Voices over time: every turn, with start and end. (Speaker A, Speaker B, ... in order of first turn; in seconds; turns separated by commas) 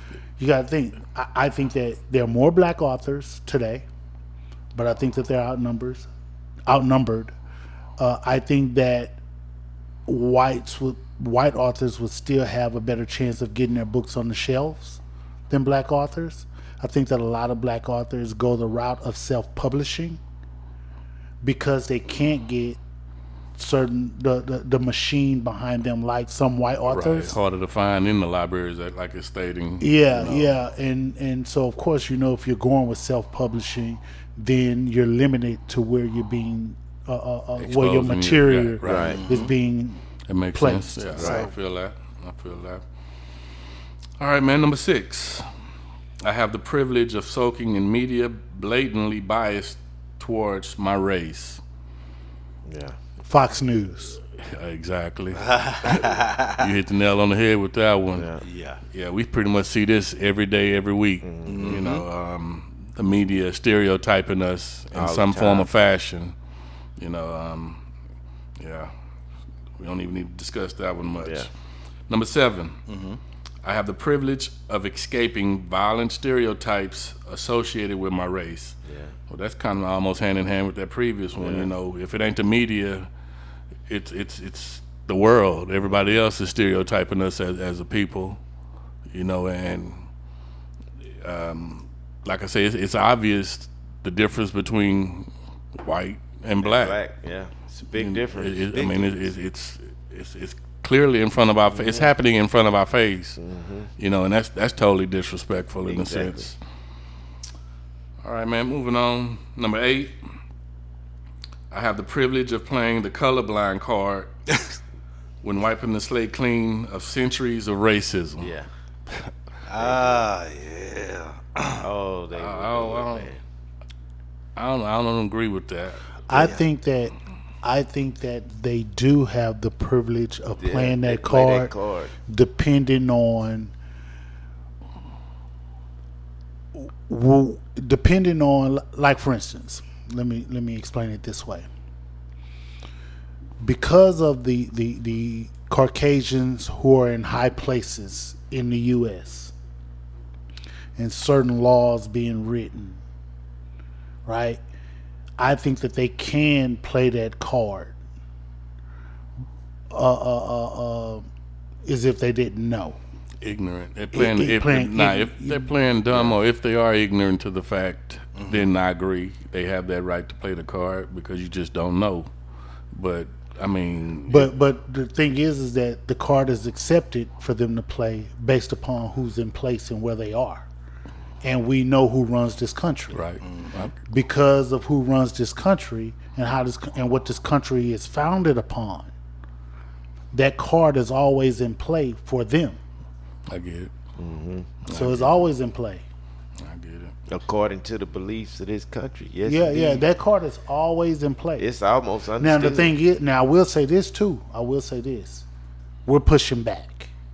Speaker A: 0.4-3.9, Speaker A: 4.8-6.1, Speaker A: 6.7-7.3, Speaker A: 8.0-9.2, Speaker A: 10.1-20.2, Speaker A: 21.4-22.8, Speaker A: 23.6-27.4, Speaker B: 26.9-30.6, Speaker A: 29.8-40.0, Speaker B: 37.6-39.2, Speaker C: 38.8-39.2, Speaker D: 39.0-39.5, Speaker B: 40.3-42.8, Speaker A: 40.5-41.5, Speaker C: 41.2-41.4, Speaker B: 44.2-45.5, Speaker B: 46.2-51.6, Speaker C: 52.6-53.0, Speaker A: 53.2-54.2, Speaker B: 54.3-58.3, Speaker D: 55.4-56.7, Speaker C: 58.1-58.4, Speaker D: 58.4-58.8, Speaker B: 58.9-66.3, Speaker C: 61.2-61.8, Speaker D: 61.5-62.0, Speaker C: 64.9-65.7, Speaker B: 67.0-67.8, Speaker B: 68.6-68.9, Speaker B: 69.8-71.5, Speaker C: 71.2-71.5, Speaker B: 72.1-72.8, Speaker D: 72.9-73.2, Speaker B: 73.6-78.8, Speaker C: 78.8-79.2, Speaker B: 79.3-83.1, Speaker C: 81.4-81.7, Speaker B: 83.9-88.4, Speaker C: 85.8-86.2, Speaker B: 89.1-90.1, Speaker B: 91.2-97.0, Speaker C: 96.6-99.0, Speaker B: 97.9-103.4, Speaker D: 98.7-99.1, Speaker C: 101.7-102.1, Speaker C: 103.4-103.9, Speaker B: 104.0-106.6, Speaker C: 105.9-106.5, Speaker B: 108.2-110.4, Speaker B: 111.7-114.3, Speaker B: 115.4-118.5, Speaker C: 118.4-118.7, Speaker D: 119.7-121.9, Speaker C: 119.8-120.3, Speaker C: 121.8-123.4, Speaker B: 122.3-123.3, Speaker B: 124.6-126.0, Speaker A: 126.3-131.7, Speaker D: 126.3-126.6, Speaker C: 130.6-132.1, Speaker A: 132.3-133.7, Speaker A: 136.8-141.7, Speaker A: 143.6-149.5, Speaker A: 151.0-153.0, Speaker A: 154.3-154.6, Speaker A: 155.4-158.0, Speaker A: 159.9-161.3, Speaker A: 161.8-163.0, Speaker B: 163.4-172.3, Speaker A: 164.1-165.7, Speaker C: 166.1-166.4, Speaker D: 168.4-168.7, Speaker B: 172.9-174.5, Speaker A: 174.3-180.7, Speaker A: 181.4-183.2, Speaker B: 183.1-184.0, Speaker D: 183.4-183.7, Speaker A: 184.1-189.1, Speaker A: 190.3-192.8, Speaker B: 193.5-193.9, Speaker C: 194.2-194.7, Speaker B: 194.8-195.3, Speaker A: 194.9-196.0, Speaker B: 196.6-197.2, Speaker C: 197.3-200.1, Speaker A: 199.5-201.7, Speaker C: 201.6-202.9, Speaker A: 202.4-205.4, Speaker A: 206.1-207.1